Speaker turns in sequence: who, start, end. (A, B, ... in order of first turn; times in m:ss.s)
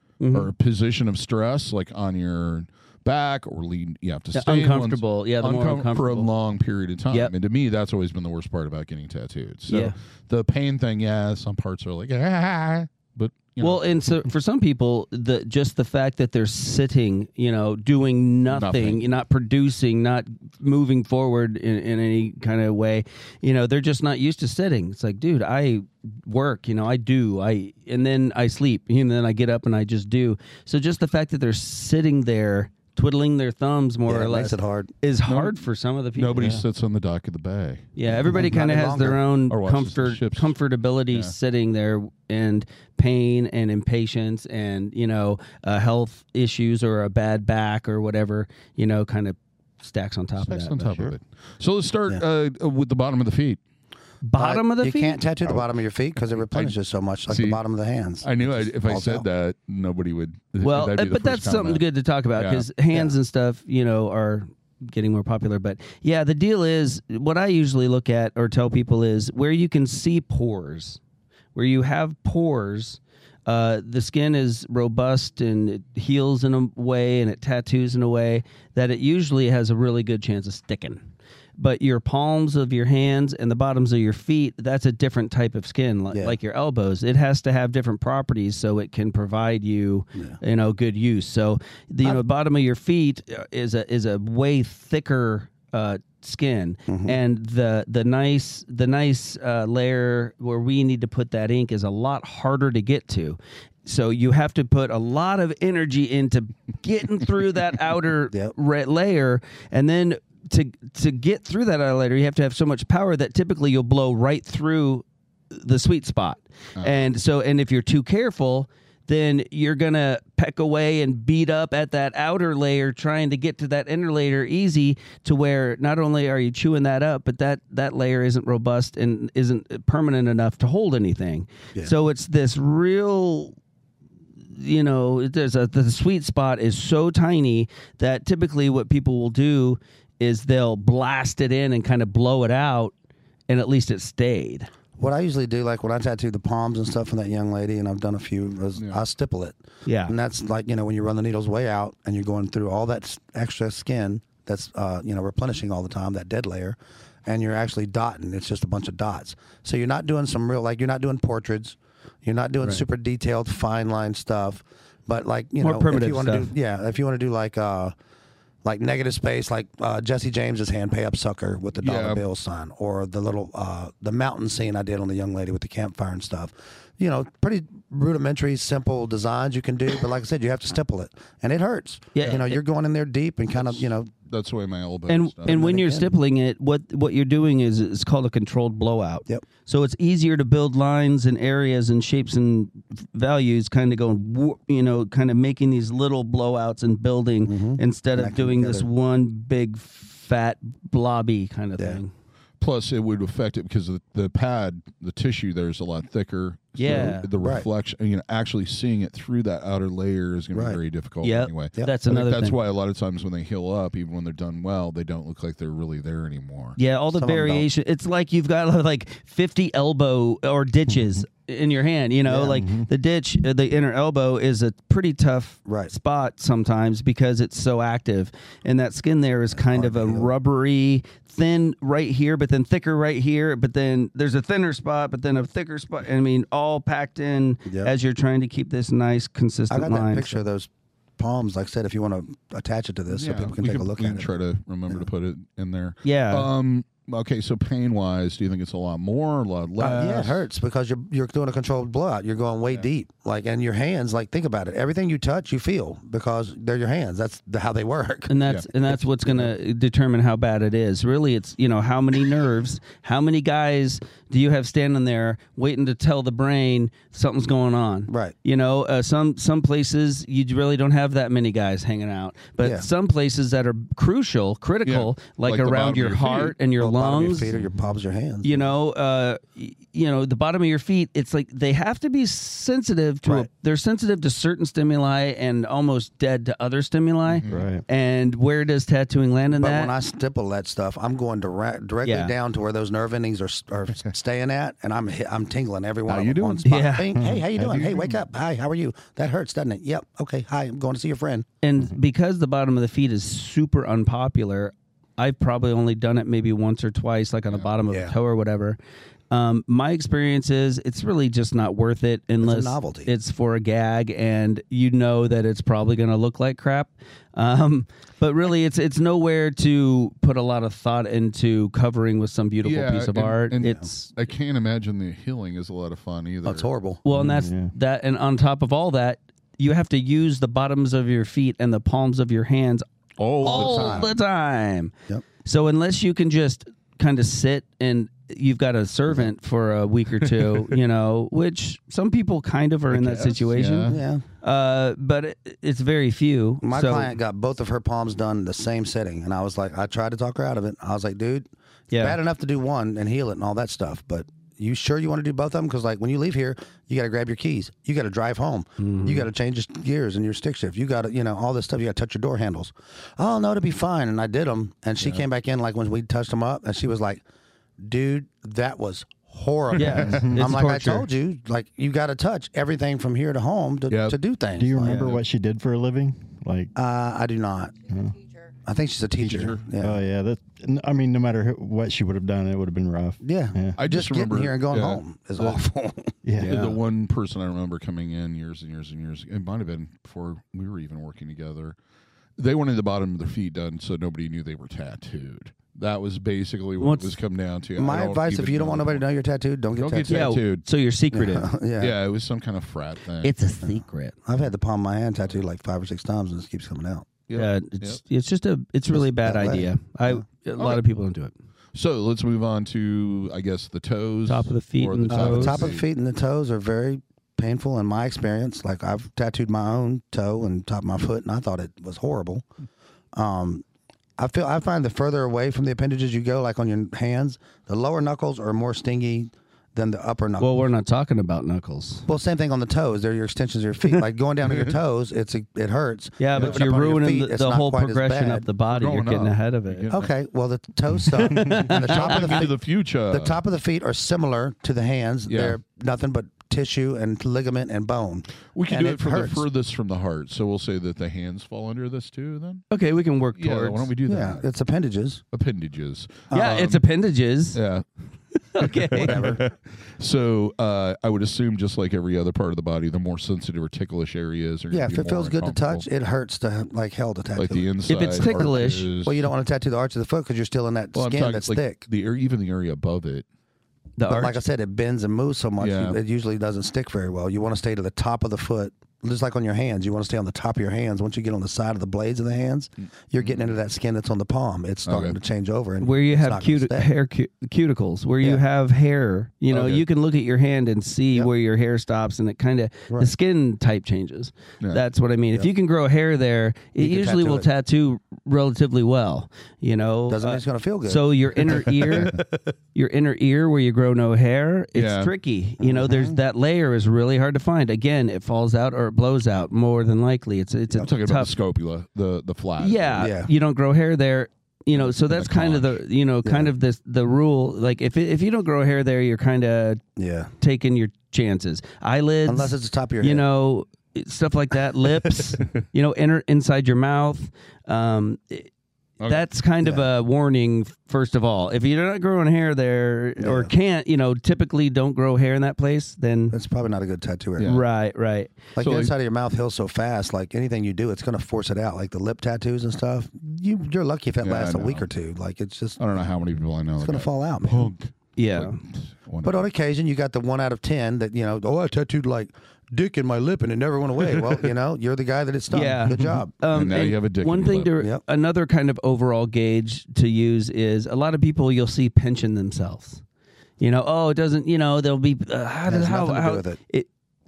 0:00.2-0:00.5 A
0:00.3-0:13.8 B
0:04.3-0:06.3 A
0:09.7-0:09.9 A
0:13.6-0:36.6 A
0:18.5-0:19.0 B
0:34.1-0:34.9 C
0:35.3-0:35.5 B
0:36.2-0:37.9 B
0:36.4-0:36.6 D
0:38.0-0:51.1 A
0:38.3-0:39.2 C
0:39.5-0:40.6 B
0:50.4-0:53.6 B
0:54.2-0:55.6 A
0:54.4-0:59.2 C
0:56.4-0:56.8 B
0:57.3-0:57.6 B
0:58.2-1:01.8 B
1:00.6-1:11.0 A
1:02.4-1:02.7 B
1:11.6-1:21.0 A
1:21.6-2:13.6 A
1:36.9-1:37.2 C
1:56.8-1:57.1 B
2:14.5-2:22.9 A
2:23.5-2:24.7 A
2:25.0-2:47.9 C
2:28.8-2:29.0 B
2:29.9-2:30.1 A
2:45.6-2:46.5 A
2:48.6-3:04.1 C
2:51.8-2:52.2 B
3:02.1-3:02.6 A
3:03.6-3:05.6 B
3:05.1-3:22.1 A
3:05.5-3:06.1 C
3:17.5-3:18.9 C
3:22.6-3:36.8 B
3:26.8-3:27.3 A
3:26.9-3:27.7 C
3:30.5-3:30.8 C
3:31.2-3:32.6 A
3:36.8-4:00.4 A
3:37.1-3:37.7 C
3:42.2-3:42.6 C
3:42.5-3:42.9 D
3:45.7-3:45.9 C
3:49.6-3:50.3 C
3:57.7-3:57.9 C
3:59.7-4:04.3 C
4:03.1-4:10.4 B
4:06.0-4:06.5 A
4:09.8-4:19.5 C
4:18.3-4:37.5 A
4:28.1-4:28.3 C
4:32.6-4:32.9 C
4:34.8-4:36.6 B
4:36.8-4:38.7 C
4:38.4-4:49.9 A
4:47.3-4:47.7 B
4:47.5-4:47.8 D
4:49.6-5:01.5 C
4:52.0-4:52.3 A
4:56.1-4:56.7 B
4:56.6-4:57.2 A
4:57.2-4:58.2 D
5:01.6-5:08.8 A
5:07.9-5:08.2 C
5:09.3-5:24.1 A
5:12.4-5:13.1 C
5:22.6-5:26.7 B
5:26.4-5:27.0 C
5:27.0-5:32.8 A
5:27.1-5:27.7 D
5:33.2-5:34.1 B
5:33.4-5:34.1 C
5:33.4-5:34.9 A
5:35.4-5:47.2 A
5:42.9-5:44.0 B
5:43.9-5:44.2 C
5:46.6-6:07.2 C
5:51.9-5:52.2 A
5:58.8-5:59.3 A
6:07.8-6:15.1 C
6:09.8-6:11.1 A
6:10.1-6:10.5 D
6:13.9-6:14.2 B
6:14.6-6:16.7 D
6:16.8-6:17.8 C
6:17.9-6:18.2 D
6:18.6-6:20.0 C
6:19.2-6:23.8 D
6:19.3-6:19.6 B
6:23.2-6:26.2 C
6:23.8-6:25.6 B
6:26.2-6:26.8 D
6:26.4-6:31.8 B
6:32.4-6:39.1 B
6:36.8-6:37.2 A
6:37.8-6:40.3 C
6:39.8-6:40.6 B
6:40.1-6:41.5 A
6:41.1-6:42.0 C
6:41.8-6:43.3 B
6:43.2-6:44.2 A
6:43.6-6:47.1 C
6:47.3-6:48.0 B
6:47.4-6:51.3 A
6:49.0-6:50.2 C
6:50.6-6:50.8 B
6:51.8-6:55.8 B
6:54.3-6:55.7 A
6:55.1-7:02.5 C
7:03.2-7:03.6 C
7:04.2-7:10.5 C
7:10.4-7:12.0 A
7:12.1-7:18.4 C
7:16.2-7:19.9 A
7:16.3-7:16.6 B
7:18.7-7:20.1 B
7:19.9-7:22.6 C
7:21.1-7:22.4 A
7:21.5-7:23.4 B
7:23.1-7:29.4 C
7:25.3-7:25.6 B
7:28.5-7:32.6 B
7:32.7-7:33.9 A
7:33.4-7:34.5 B
7:34.1-7:35.2 C
7:35.3-7:36.8 B
7:36.3-7:36.6 C
7:36.3-7:37.6 A
7:37.5-7:37.8 B
7:38.5-7:39.4 A
7:38.6-7:45.9 B
7:39.0-7:39.4 C
7:44.7-7:51.8 C
7:47.4-7:49.3 B
7:47.9-7:48.9 A
7:51.0-7:53.2 B
7:54.0-7:54.4 A
7:54.1-8:06.9 C
7:55.6-7:56.0 B
8:03.2-8:03.5 B
8:04.9-8:05.2 B
8:05.8-8:31.3 A
8:09.5-8:09.8 B
8:16.8-8:17.5 C
8:20.1-8:22.2 C
8:24.8-8:25.1 B
8:25.6-8:26.2 C
8:30.8-8:33.1 B
8:32.6-8:39.8 A
8:33.0-8:33.3 C
8:34.7-8:35.8 B
8:36.2-8:36.5 C
8:40.0-8:40.3 C
8:40.4-8:48.5 A
8:42.3-8:43.3 C
8:49.0-8:49.2 B
8:49.1-8:56.4 A
8:49.6-8:49.9 C
8:53.2-8:53.5 C
8:56.3-8:57.6 C
8:57.4-8:57.6 B
8:57.4-8:58.5 A
8:58.6-9:05.8 C
8:58.6-8:58.9 B
9:04.2-9:04.9 B
9:05.8-9:09.5 B
9:06.8-9:07.7 C
9:08.2-9:08.6 A
9:09.2-9:16.3 C
9:15.5-9:23.0 A
9:16.5-9:17.7 B
9:23.6-9:26.9 A
9:25.7-9:26.6 C